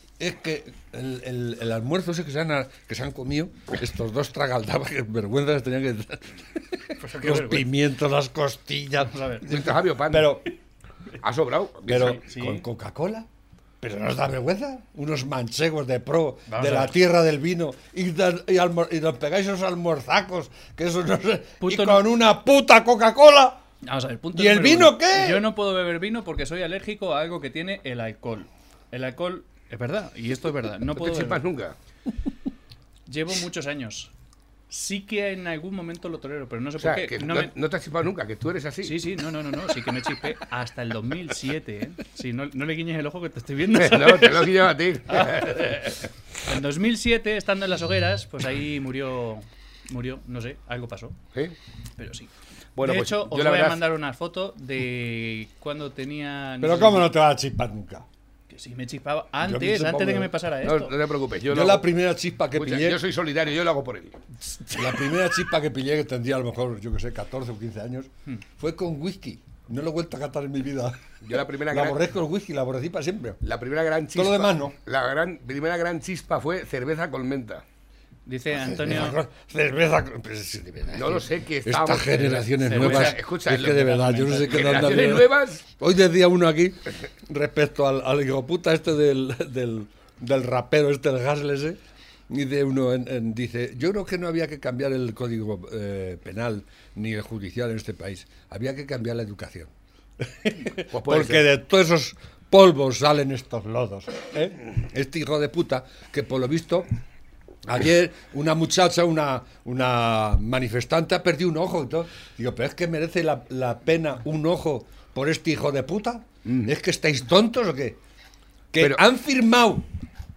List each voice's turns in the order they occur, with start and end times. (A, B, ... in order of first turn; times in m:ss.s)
0:00.2-0:10.5 A
0:07.0-0:07.7 B
0:09.0-0:09.5 B
0:09.5-0:10.3 C
0:11.2-0:12.2 C
0:11.8-0:13.3 A
0:12.0-0:12.6 B
0:13.8-0:23.6 A
0:16.5-0:16.9 B
0:21.6-0:22.0 B
0:23.8-0:31.4 B
0:24.3-0:25.4 A
0:31.0-0:31.7 C
0:33.1-0:34.1 B
0:34.7-0:37.5 B
0:36.8-0:39.0 C
0:38.8-0:44.5 B
0:43.8-0:46.0 C
0:45.1-0:45.8 B
0:46.4-0:51.2 B
0:52.0-0:57.1 B
0:52.8-0:53.8 C
0:56.6-0:58.1 A
0:58.5-1:00.9 B
0:59.4-1:00.3 A
1:00.6-1:01.9 C
1:01.5-1:03.0 A
1:02.5-1:04.2 C
1:04.7-1:11.1 A
1:11.2-1:12.0 C
1:11.7-1:13.4 A
1:13.4-1:17.6 C
1:14.1-1:14.7 A
1:18.2-1:19.2 B
1:18.5-1:46.9 A
1:20.9-1:23.8 C
1:22.2-1:25.0 B
1:24.5-1:25.6 C
1:40.9-1:41.4 C
1:47.6-1:58.0 A
1:56.4-1:56.7 C
1:58.7-1:59.9 A